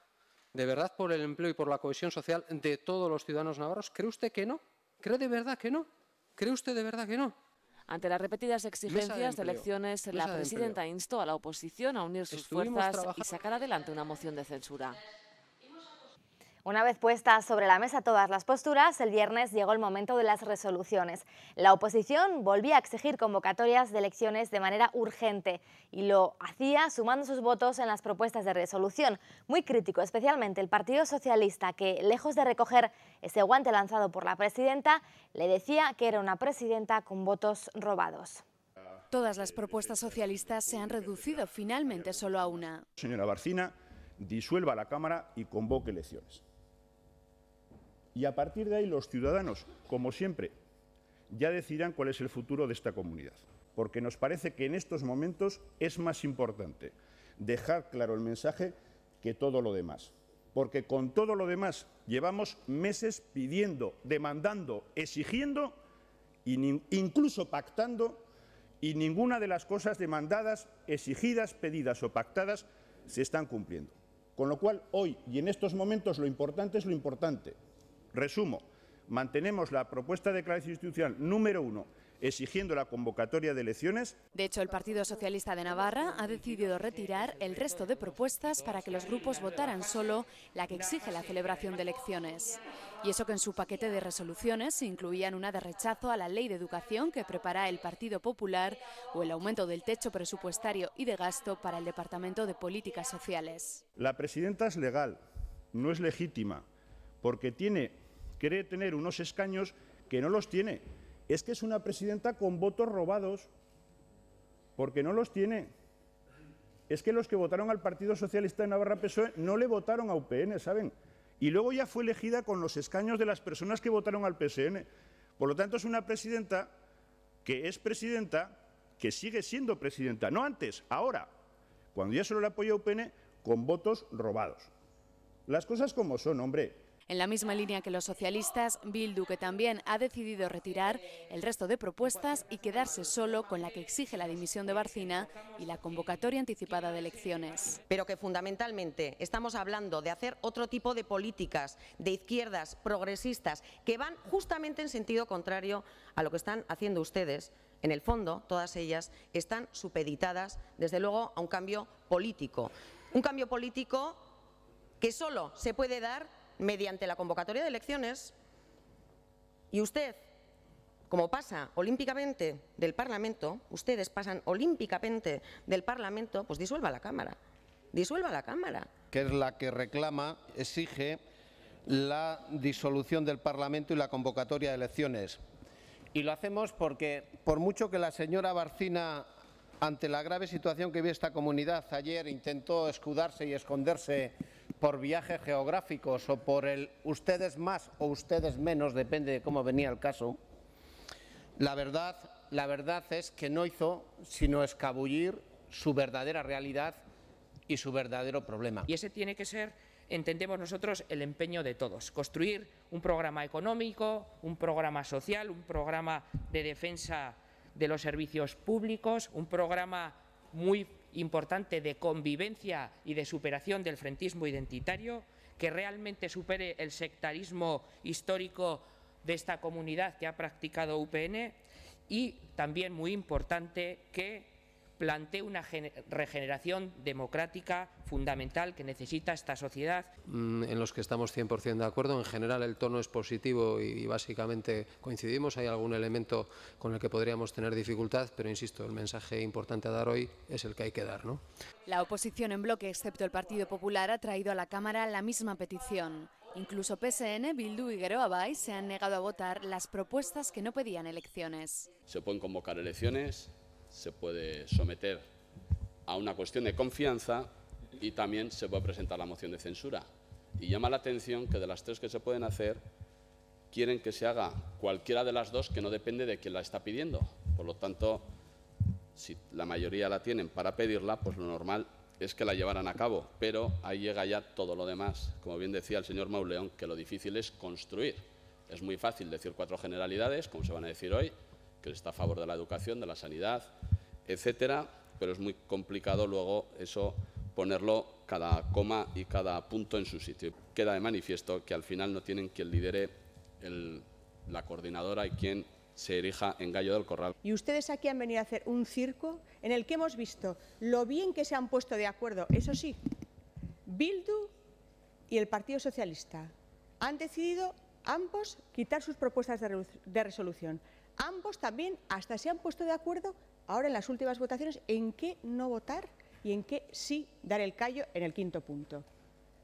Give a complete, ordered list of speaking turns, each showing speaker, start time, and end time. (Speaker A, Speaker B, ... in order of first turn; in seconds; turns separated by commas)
Speaker A: 0.5-7.3, Speaker B: 7.9-15.0, Speaker A: 8.9-10.8, Speaker A: 12.3-13.3, Speaker C: 16.6-38.4, Speaker D: 39.1-42.9, Speaker E: 43.0-46.4, Speaker E: 48.1-50.5, Speaker E: 51.3-65.8, Speaker E: 66.5-68.3, Speaker E: 68.8-77.6, Speaker E: 78.1-84.2, Speaker D: 84.3-103.8, Speaker E: 104.0-105.2, Speaker E: 105.7-106.7, Speaker E: 107.2-113.5, Speaker E: 114.8-115.7, Speaker E: 116.9-126.7, Speaker E: 127.5-131.3, Speaker E: 131.9-134.7, Speaker E: 135.5-136.8, Speaker D: 137.1-147.8, Speaker F: 147.9-164.3, Speaker F: 165.0-168.3, Speaker F: 169.7-170.2, Speaker F: 171.1-177.4, Speaker F: 177.9-179.0, Speaker G: 179.1-181.2, Speaker G: 181.8-185.4, Speaker G: 186.1-189.3, Speaker G: 189.8-200.4, Speaker G: 201.6-207.1, Speaker G: 207.7-208.9, Speaker H: 208.9-240.1, Speaker A: 240.3-251.4, Speaker D: 251.9-261.9, Speaker I: 262.1-265.3, Speaker I: 266.1-272.9, Speaker I: 273.7-278.3, Speaker I: 279.1-293.7, Speaker I: 294.3-307.4, Speaker J: 307.4-313.0, Speaker J: 313.9-314.5, Speaker J: 315.3-329.1